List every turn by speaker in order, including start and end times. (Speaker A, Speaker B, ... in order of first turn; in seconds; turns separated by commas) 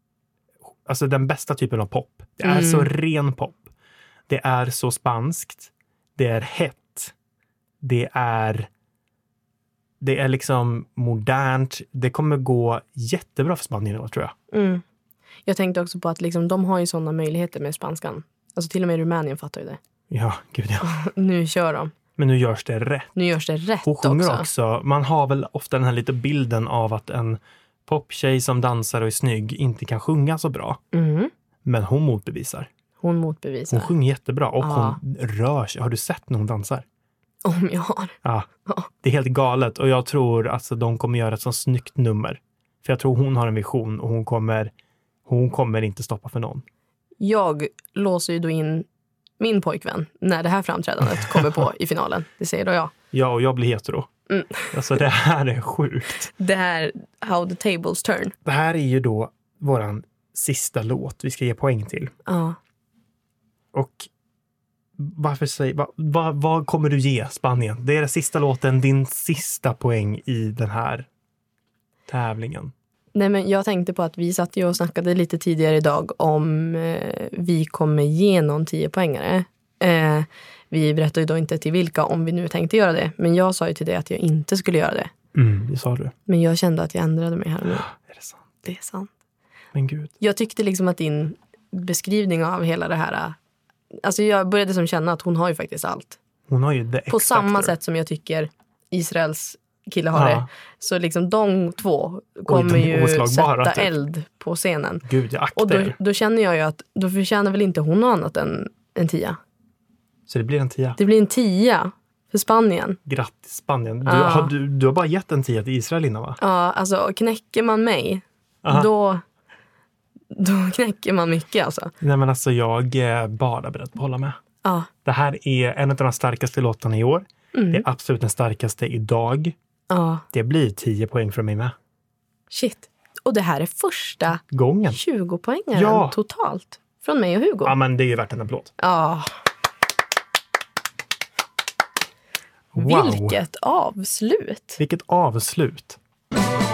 Speaker A: 0.8-3.7, Speaker B: 2.4-2.9, Speaker A: 4.3-7.1, Speaker A: 7.8-8.7, Speaker A: 10.0-14.3, Speaker B: 14.5-14.8, Speaker B: 15.5-19.8, Speaker A: 20.1-20.9, Speaker B: 20.8-21.9, Speaker A: 22.2-23.1, Speaker B: 23.2-24.5, Speaker A: 23.8-30.8, Speaker B: 30.9-31.3, Speaker A: 31.6-32.7, Speaker B: 33.0-33.9, Speaker A: 33.7-36.9, Speaker B: 34.6-35.0, Speaker B: 37.5-38.9, Speaker A: 38.2-38.5, Speaker A: 39.0-44.7, Speaker A: 45.3-46.6, Speaker B: 47.2-48.9, Speaker B: 49.4-52.9, Speaker A: 51.2-51.5, Speaker A: 53.1-54.1, Speaker B: 54.3-54.8, Speaker A: 54.7-56.3, Speaker B: 56.4-58.3, Speaker A: 58.4-62.1, Speaker B: 62.3-62.6, Speaker A: 63.7-64.1, Speaker A: 65.0-71.1, Speaker A: 72.1-72.7, Speaker B: 73.1-85.1, Speaker A: 85.3-86.1, Speaker B: 86.3-87.9, Speaker A: 87.6-88.4, Speaker B: 88.6-89.1, Speaker A: 89.7-90.1, Speaker B: 90.2-93.4, Speaker B: 94.0-96.2, Speaker A: 96.5-97.7, Speaker B: 97.1-109.4, Speaker A: 100.1-100.5, Speaker A: 102.5-103.9, Speaker A: 105.1-106.0, Speaker A: 110.3-111.0, Speaker B: 111.0-113.0, Speaker A: 113.1-116.4, Speaker B: 114.0-114.5, Speaker B: 116.4-119.2, Speaker A: 118.6-118.9, Speaker B: 120.3-121.9, Speaker A: 122.0-124.4, Speaker B: 124.6-124.9, Speaker A: 125.0-129.6, Speaker B: 127.5-127.8, Speaker B: 129.9-130.2, Speaker A: 130.3-131.8, Speaker B: 132.5-137.8, Speaker A: 134.5-135.0, Speaker A: 135.7-136.2, Speaker A: 137.6-138.7, Speaker B: 138.8-139.3, Speaker A: 142.7-143.4, Speaker B: 142.8-144.8, Speaker A: 144.8-146.0